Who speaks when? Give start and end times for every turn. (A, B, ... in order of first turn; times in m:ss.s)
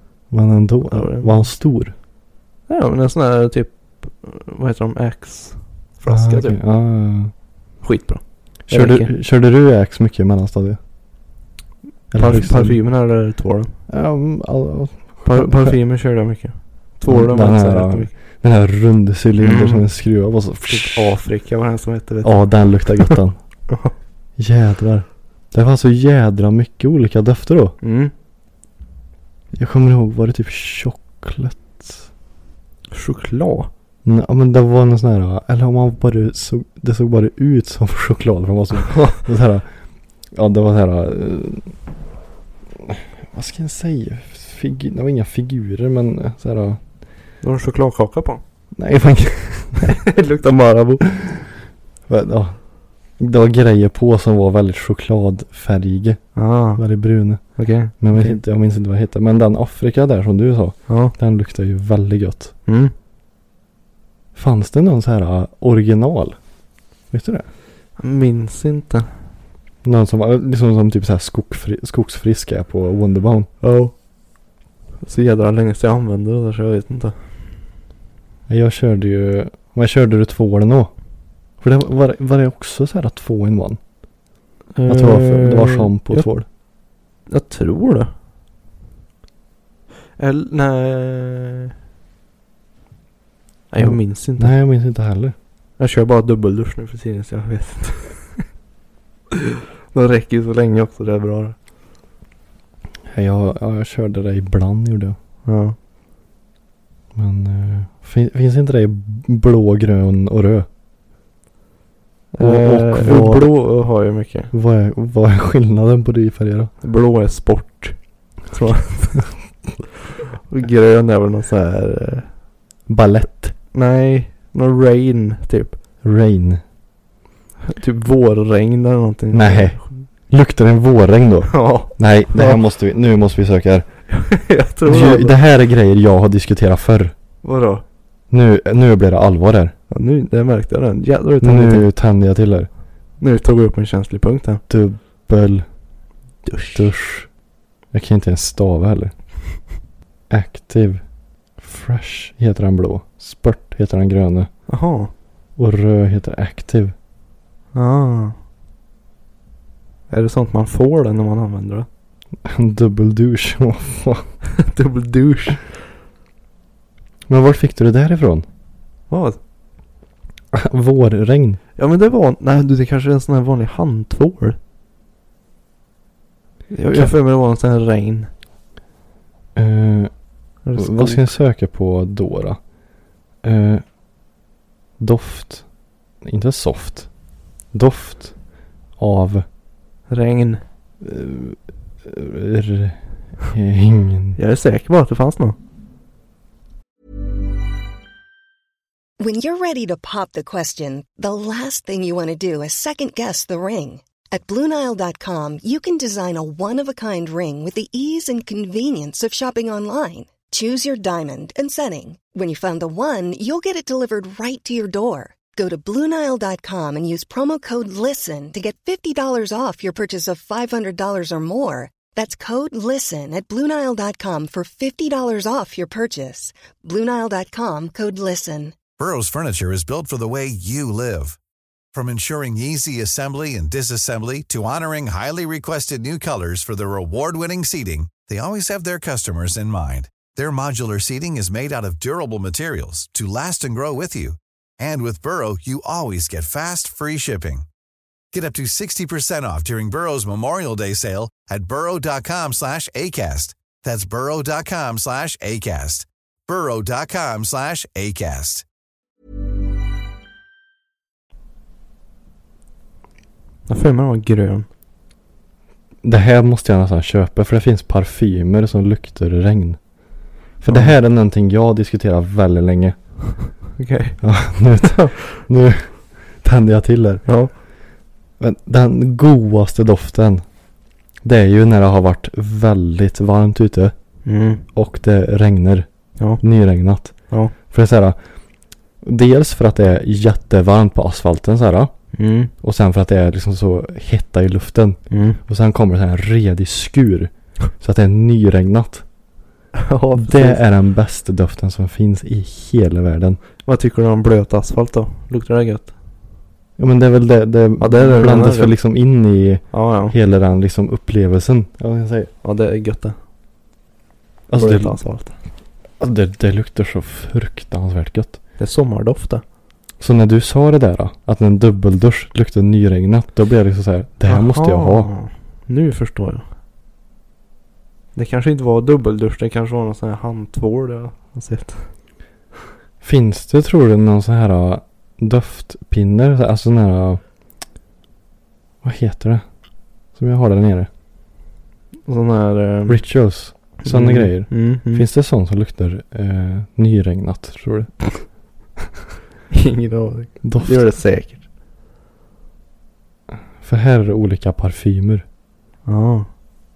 0:00.3-0:01.9 A
0:00.9-0:01.5 B
0:02.7-0:06.6 B
0:06.1-0:07.3 A
0:07.8-0:09.1 B
0:08.7-0:10.8 A
0:12.1-0:12.8 A
0:12.1-0:13.8 B
0:13.9-0:15.8 A
0:15.2-0:18.1 B
0:17.1-0:21.2 A
0:19.4-0:19.8 B
0:20.7-0:22.4 B
0:22.2-0:23.4 A
0:24.4-0:27.8 A
0:27.8-0:28.1 B
0:29.5-0:32.0 A
0:32.9-0:33.7 B
0:34.0-0:39.7 A
0:38.9-0:39.2 B
0:40.3-0:41.7 A
0:42.8-0:46.8 A
0:47.4-0:48.4 B
0:48.8-0:50.0 A
0:49.8-0:51.1 B
0:52.1-0:52.6 A
0:53.2-0:57.4 A
0:56.4-0:56.8 B
0:57.6-0:58.4 B
0:57.9-1:02.5 A
1:00.9-1:01.1 B
1:02.7-1:02.9 B
1:04.3-1:06.4 A
1:07.1-1:07.5 A
1:08.0-1:09.1 B
1:09.8-1:13.5 A
1:13.6-1:13.9 B
1:15.0-1:17.3 B
1:18.5-1:20.9 A
1:21.6-1:23.8 A
1:24.7-1:26.3 B
1:24.8-1:26.4 A
1:27.3-1:28.1 B
1:30.2-1:31.7 B
1:33.7-1:34.5 B
1:33.8-1:35.3 A
1:35.8-1:38.4 B
1:39.3-1:41.6 B
1:43.1-1:45.2 A
1:45.4-1:45.7 B
1:47.1-1:50.7 A
1:52.3-1:54.5 B
1:52.4-1:53.5 A
1:54.5-1:56.7 A
1:56.8-1:59.3 B
2:00.5-2:02.3 B
2:02.9-2:03.5 A
2:03.7-2:05.8 B
2:06.0-2:06.6 A
2:07.7-2:10.0 B
2:09.3-2:13.8 A
2:11.5-2:12.6 B
2:14.1-2:15.4 B
2:14.8-2:17.1 A
2:17.4-2:17.8 B
2:18.3-2:19.7 A
2:19.9-2:21.9 B
2:21.4-2:22.7 A
2:23.2-2:24.6 B
2:24.7-2:25.6 A
2:26.4-2:26.8 B
2:26.7-2:27.3 A
2:27.9-2:29.1 A
2:30.3-2:31.0 A
2:31.6-2:34.5 A
2:34.7-2:35.1 B
2:35.6-2:36.9 A
2:37.7-2:38.4 B
2:40.1-2:41.9 B
2:42.4-2:44.3 A
2:44.5-2:45.7 B
2:47.3-2:48.4 A
2:49.1-2:49.4 B
2:50.5-2:51.6 A
2:51.8-2:54.6 B
2:56.7-2:58.3 B
2:59.5-3:00.1 A
3:00.6-3:01.3 B
3:00.8-3:02.6 A
3:03.4-3:03.8 A
3:05.0-3:05.6 A
3:06.2-3:07.1 A
3:07.7-3:08.4 A
3:09.0-3:09.4 A
3:10.1-3:10.6 B
3:11.0-3:14.4 A
3:14.4-3:15.6 B
3:19.2-3:48.8 C
3:49.0-3:51.4 D
3:51.9-4:07.6 D
4:08.3-4:18.6 D
4:23.7-4:24.7 B
4:26.0-4:29.8 A
4:30.6-4:33.0 A
4:30.7-4:30.9 B
4:33.8-4:34.2 B
4:34.2-4:37.2 A
4:34.8-4:35.2 B
4:37.2-4:37.5 B
4:38.4-4:40.4 A
4:41.2-4:43.9 A
4:44.2-4:44.6 B
4:44.7-4:45.9 A
4:46.4-4:48.2 A
4:49.0-4:51.9 A
4:52.1-4:52.5 B
4:52.6-4:59.0 A
4:55.1-4:55.4 B
4:59.7-5:00.6 B
5:00.2-5:03.4 A
5:03.6-5:05.9 B
5:06.8-5:12.3 A
5:07.8-5:08.7 B
5:09.7-5:10.1 B
5:12.4-5:13.2 B
5:14.5-5:15.0 A
5:14.6-5:15.3 B
5:16.0-5:18.4 A
5:18.6-5:19.4 B
5:20.0-5:25.1 A
5:24.3-5:26.4 B
5:28.1-5:31.9 B
5:33.0-5:37.2 A
5:38.8-5:39.4 A
5:40.1-5:40.9 A
5:42.0-5:43.0 B
5:42.9-5:48.2 A
5:43.8-5:45.0 B
5:49.5-5:51.4 B
5:50.4-5:50.9 A
5:53.6-5:55.2 A
5:55.8-5:56.3 B